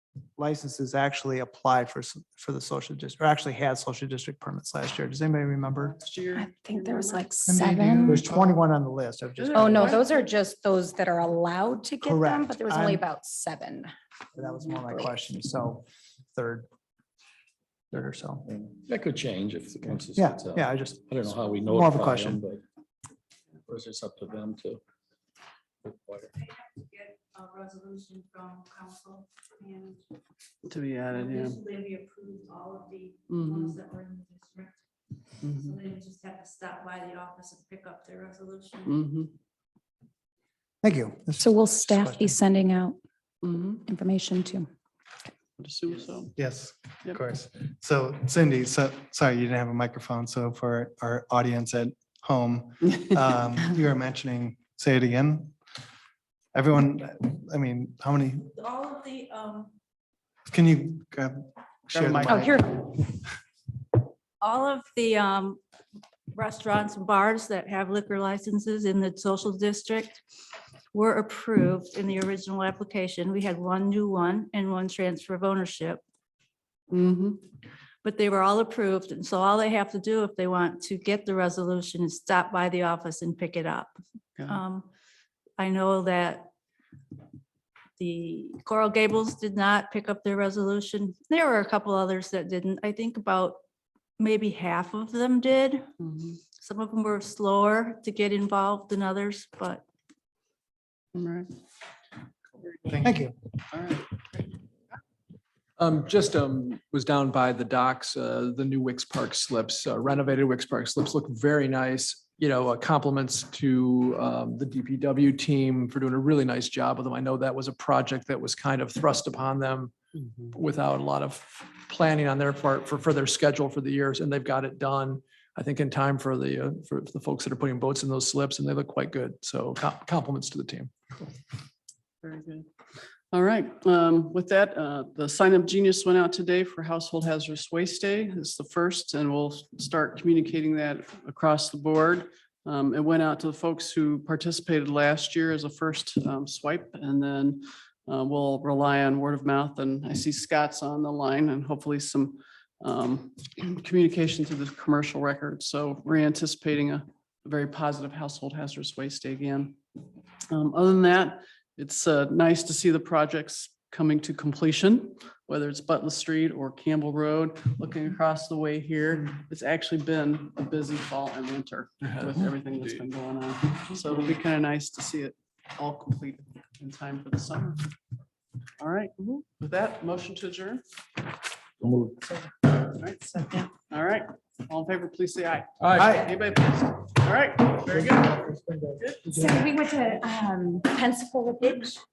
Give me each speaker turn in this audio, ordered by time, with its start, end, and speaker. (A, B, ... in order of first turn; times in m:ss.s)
0:00.4-0:06.0 A
0:05.8-0:07.4 B
0:06.3-0:08.4 C
0:07.5-0:10.0 A
0:09.4-0:10.0 B
0:09.5-0:13.9 C
0:12.0-0:13.0 A
0:14.4-0:16.7 A
0:17.9-0:18.5 A
0:18.5-0:22.6 D
0:20.1-0:22.4 A
0:23.7-0:24.8 D
0:25.9-0:26.3 D
0:26.4-0:30.0 E
0:30.7-0:31.6 B
0:31.1-0:34.8 E
0:33.3-0:33.8 B
0:35.4-0:39.0 E
0:38.9-0:39.3 B
0:40.8-0:42.4 A
0:41.4-0:43.0 C
0:43.4-0:43.8 B
0:43.8-0:44.7 C
0:45.6-0:46.3 B
0:46.4-0:55.6 F
0:56.5-0:58.5 F
0:58.5-0:59.7 E
1:00.5-1:02.8 F
1:02.2-1:02.9 C
1:04.4-1:05.6 E
1:06.3-1:10.2 E
1:10.9-1:16.0 E
1:16.9-1:17.4 B
1:18.0-1:24.9 E
1:25.6-1:26.5 E
1:28.0-1:33.6 E
1:34.2-1:35.9 E
1:36.0-1:36.4 B
1:36.5-1:39.8 E
1:41.1-1:41.5 B
1:43.0-1:43.3 A
1:43.7-1:44.5 B
1:45.8-2:00.0 G
2:00.5-2:10.9 G
2:12.2-2:12.7 B
2:13.3-2:39.8 B
2:40.5-2:57.9 B
2:52.0-2:53.1 G
2:58.8-3:00.8 B
3:03.0-3:08.3 B
3:05.8-3:06.3 G
3:06.0-3:06.3 A
3:07.9-3:09.7 A
3:09.3-3:12.0 C